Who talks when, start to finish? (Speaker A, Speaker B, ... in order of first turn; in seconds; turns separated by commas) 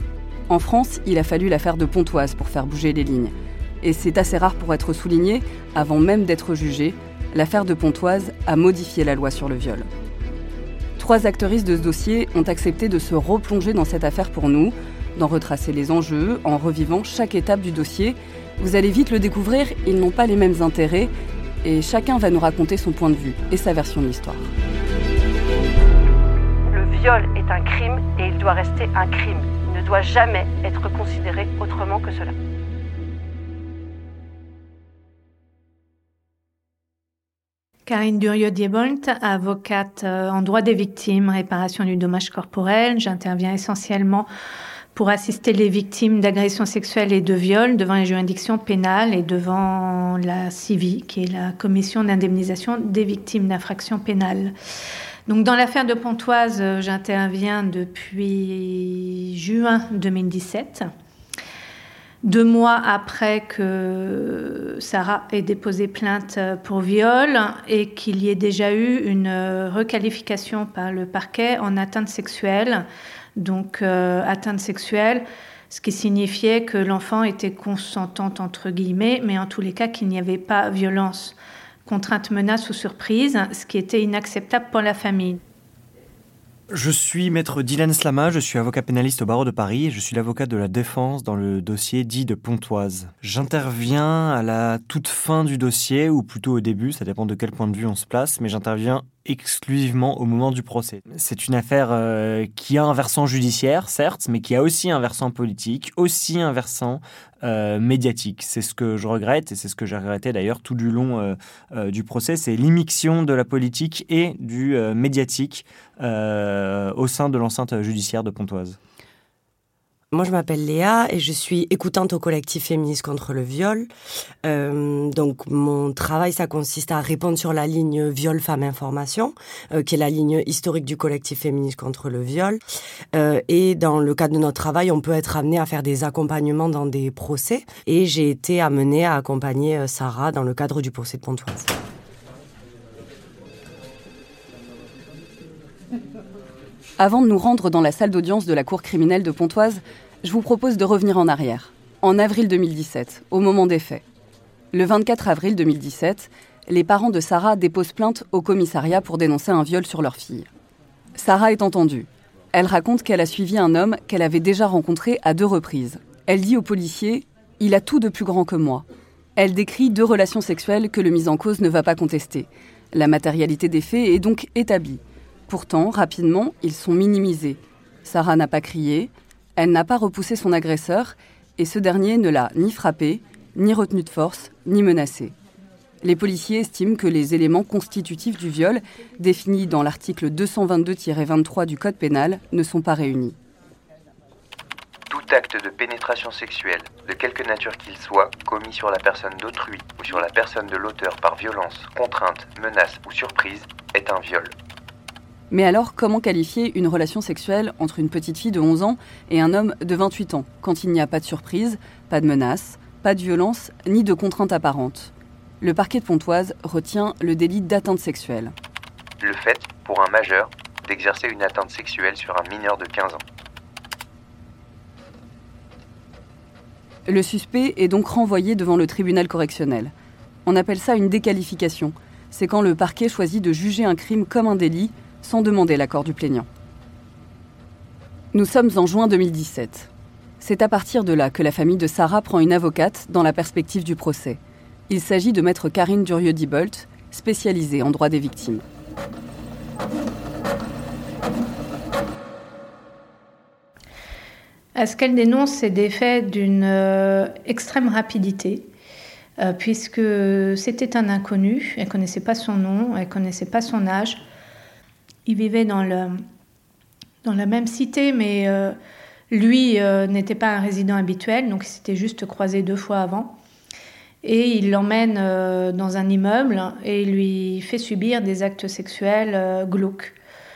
Speaker A: 0.5-9.9, Speaker A: 11.0-21.1, Speaker A: 21.6-24.5, Speaker B: 26.7-32.3, Speaker C: 37.9-44.3, Speaker C: 44.9-54.5, Speaker C: 55.3-60.9, Speaker C: 62.2-72.8, Speaker C: 73.4-81.3, Speaker C: 81.9-85.4, Speaker D: 86.7-118.8, Speaker E: 120.1-123.9, Speaker E: 124.4-132.6, Speaker E: 133.1-141.7, Speaker A: 147.0-154.0, Speaker A: 154.7-160.5, Speaker A: 161.2-168.8, Speaker A: 169.3-185.3, Speaker A: 186.0-193.3, Speaker F: 195.1-204.5, Speaker A: 205.5-218.5, Speaker F: 219.2-223.2, Speaker A: 227.1-229.9, Speaker A: 230.4-236.5, Speaker A: 238.3-248.6, Speaker C: 254.8-258.7, Speaker C: 259.4-264.2, Speaker C: 265.2-266.2, Speaker C: 267.2-268.7, Speaker C: 269.3-273.3, Speaker C: 274.2-280.1